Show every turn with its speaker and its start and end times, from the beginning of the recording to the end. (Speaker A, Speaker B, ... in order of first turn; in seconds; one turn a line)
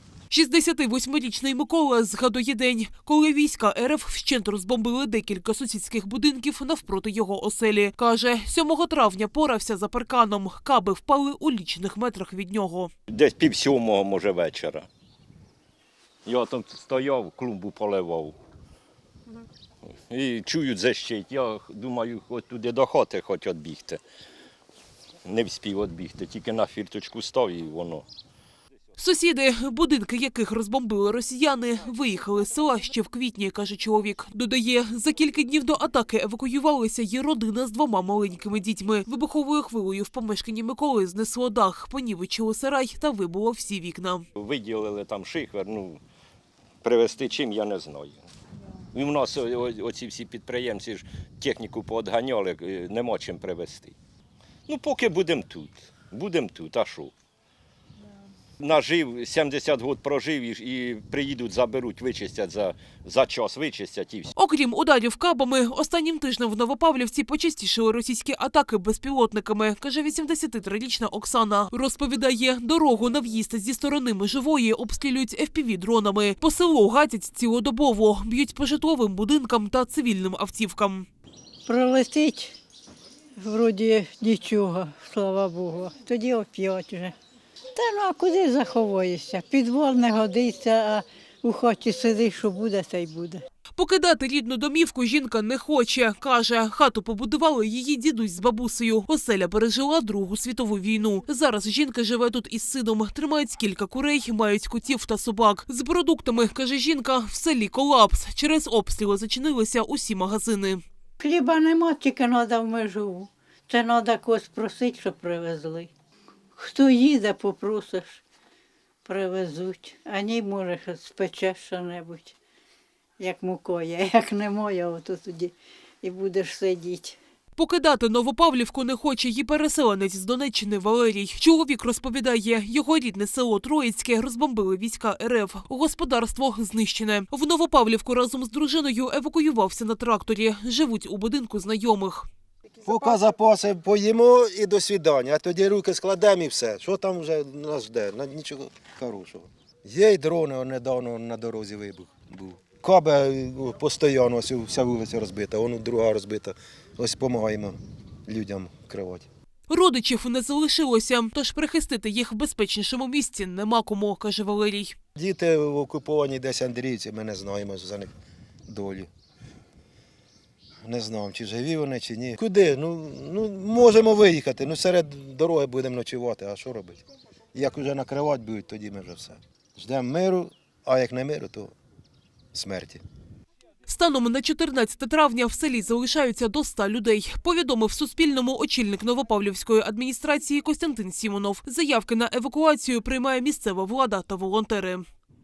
Speaker A: 0.3-12.9
Speaker B: 13.1-14.9
Speaker B: 16.3-18.4
Speaker B: 20.1-24.0
Speaker B: 25.2-28.1
Speaker A: 29.0-44.2
Speaker B: 44.4-46.0
Speaker B: 46.8-48.2
Speaker B: 48.9-54.0
Speaker B: 54.7-57.1
Speaker B: 58.6-64.3
Speaker A: 64.4-81.1
Speaker C: 81.7-82.5
Speaker C: 83.4-87.2
Speaker C: 87.8-93.4
Speaker A: 93.8-110.8
Speaker C: 111.2-115.9
Speaker C: 116.6-118.2
Speaker C: 119.0-122.3
Speaker C: 123.2-127.2
Speaker A: 127.6-142.3
Speaker D: 142.8-159.3
Speaker A: 159.7-164.9
Speaker D: 165.2-168.1
Speaker D: 168.7-169.1
Speaker D: 170.8-177.0
Speaker D: 177.5-181.7
Speaker D: 182.5-183.0
Speaker A: 183.9-195.1